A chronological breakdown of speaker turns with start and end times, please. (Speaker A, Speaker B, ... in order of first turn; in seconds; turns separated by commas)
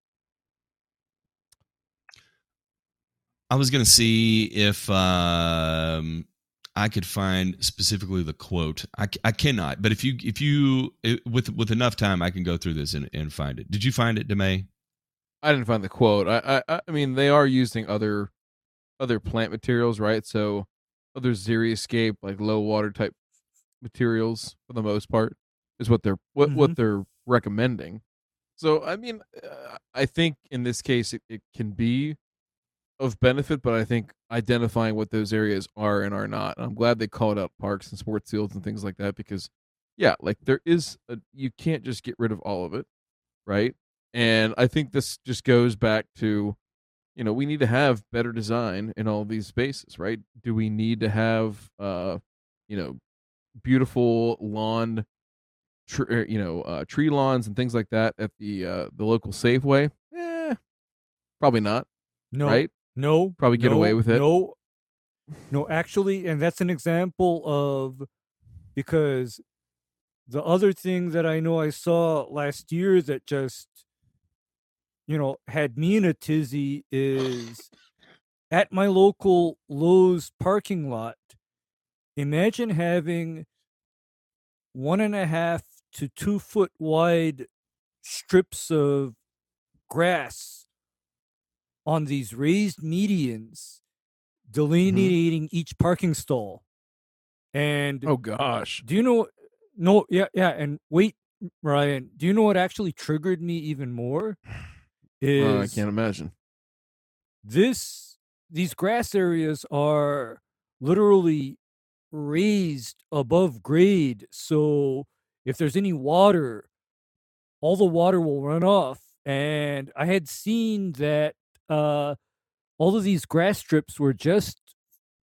Speaker A: 3.5-14.7, Speaker B: 15.4-18.3, Speaker B: 19.0-23.1, Speaker B: 23.8-28.0, Speaker C: 26.4-26.8, Speaker B: 28.6-32.2, Speaker B: 33.0-42.9, Speaker B: 43.5-46.6, Speaker B: 47.1-53.0, Speaker B: 53.6-55.0, Speaker B: 55.9-60.6, Speaker B: 61.4-61.9, Speaker C: 62.3-64.5, Speaker B: 62.4-62.7, Speaker B: 63.4-64.2, Speaker C: 65.5-68.1, Speaker C: 68.7-69.4, Speaker C: 70.3-73.8, Speaker C: 75.1-77.7, Speaker C: 78.5-81.3, Speaker C: 82.2-83.5, Speaker C: 84.7-87.5, Speaker C: 88.0-89.2, Speaker C: 89.9-90.6, Speaker C: 91.8-93.8, Speaker C: 94.5-96.6, Speaker B: 94.8-95.1, Speaker C: 97.5-98.1, Speaker B: 98.0-98.8, Speaker C: 98.8-104.4, Speaker C: 105.2-105.8, Speaker B: 105.4-106.3, Speaker C: 107.4-111.6, Speaker C: 112.1-116.7, Speaker C: 117.6-122.2, Speaker C: 122.8-124.7